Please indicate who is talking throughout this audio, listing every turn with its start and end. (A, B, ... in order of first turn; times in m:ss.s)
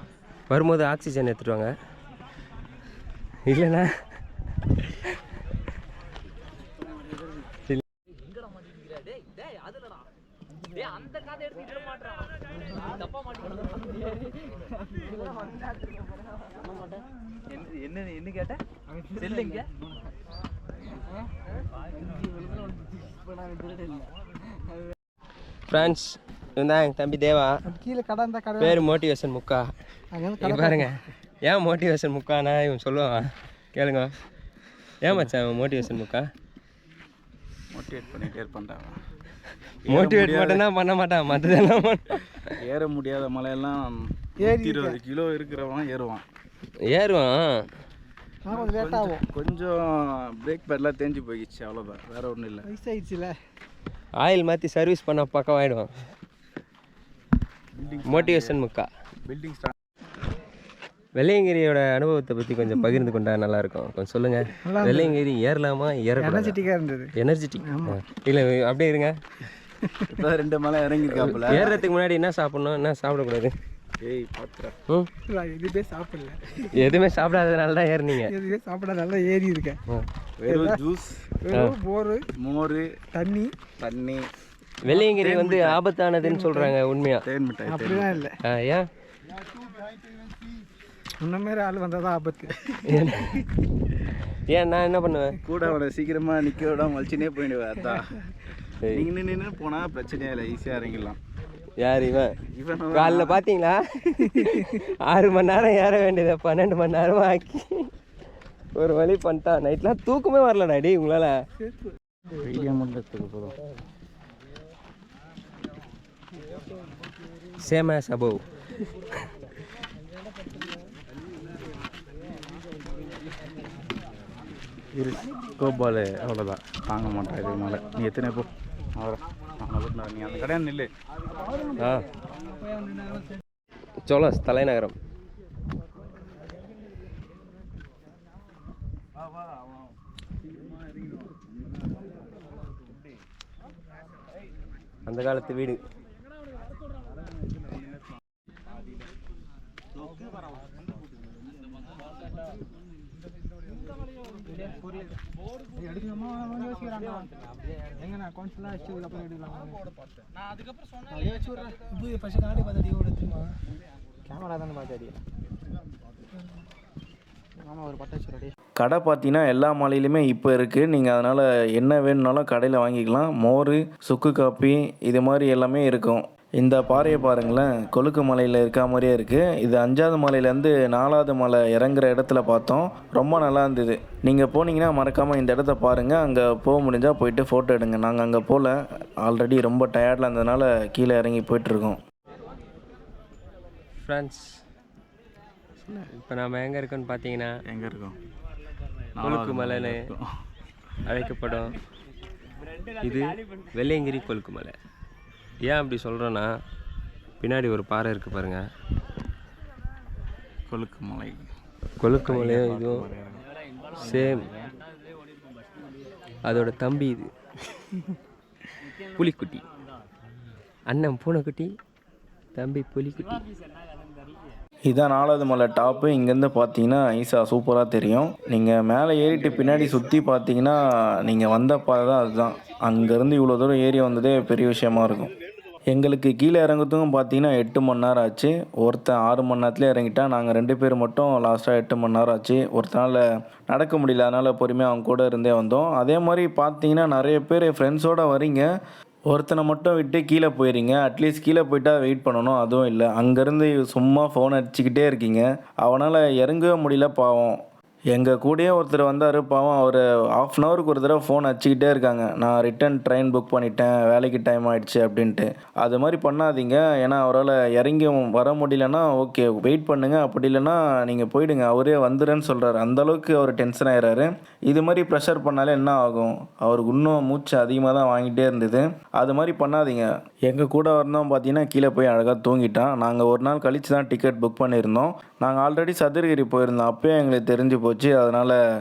0:00.5-0:01.7 A
0:03.4-0:03.9 A
0:25.7-0:27.6 A
0:27.6-0:28.9 B
0:28.6-0:29.7 A
0:30.1-0:31.0 B
0:30.4-0:34.1 A
0:35.0-0:36.3 A
0:37.7-0:39.0 C
0:39.8-0:40.6 C
0:39.9-0:42.6 A
0:42.6-0:46.2 C
0:44.4-0:45.0 B
0:46.9-0:47.6 A
0:48.4-0:49.2 B
0:48.5-0:52.7 C
0:52.6-0:53.4 B
0:54.2-0:55.9 A
0:57.8-0:58.6 C
0:58.1-0:58.9 A
0:59.2-0:59.7 C
1:01.2-1:06.6 A
1:04.6-1:05.2 B
1:06.2-1:07.1 B
1:07.2-1:09.1 A
1:07.6-1:08.0 B
1:10.1-1:11.8 C
1:11.2-1:13.5 A
1:11.5-1:11.8 B
1:14.0-1:14.8 C
1:15.3-1:16.9 B
1:16.7-1:18.3 A
1:18.2-1:19.8 B
1:20.4-1:21.3 C
1:20.5-1:20.8 B
1:21.4-1:22.2 B
1:22.4-1:22.9 C
1:23.1-1:23.5 B
1:23.8-1:24.3 C
1:24.8-1:27.2 A
1:24.9-1:25.8 C
1:26.2-1:26.7 B
1:27.2-1:28.2 C
1:27.6-1:28.4 B
1:28.4-1:28.9 A
1:31.2-1:32.8 B
1:32.8-1:33.4 A
1:34.5-1:35.4 A
1:35.4-1:38.2 C
1:38.9-1:41.2 C
1:41.8-1:42.4 A
1:42.5-1:43.4 C
1:42.9-1:47.9 A
1:44.2-1:44.7 B
1:48.8-1:51.4 A
1:52.4-1:53.5 C
1:57.6-1:58.4 A
2:04.9-2:10.9 C
2:11.8-2:12.0 A
2:14.0-2:14.9 A
2:25.1-2:25.8 A
2:34.4-2:35.2 B
2:35.8-2:37.3 B
2:38.0-2:39.9 B
2:41.1-2:43.5 B
2:44.2-2:45.2 B
2:47.6-2:48.5 B
2:48.8-3:12.0 D
3:14.0-3:14.4 A
3:16.1-3:17.6 A
3:17.6-3:18.1 C
3:19.2-3:20.3 C
3:19.2-3:20.0 A
3:21.0-3:21.7 A
3:23.0-3:24.7 A
3:25.6-3:26.5 A
3:27.4-3:28.6 A
3:30.7-3:31.5 C
3:32.0-3:33.0 A
3:32.2-3:33.4 C
3:34.0-3:34.4 A
3:34.0-3:34.6 C
3:36.4-3:37.3 A
3:39.1-3:39.6 A
3:40.9-3:41.7 A
3:42.5-3:43.4 A
3:44.9-3:55.3 D
3:55.9-4:08.7 D
4:09.3-4:17.6 D
4:18.1-4:48.6 D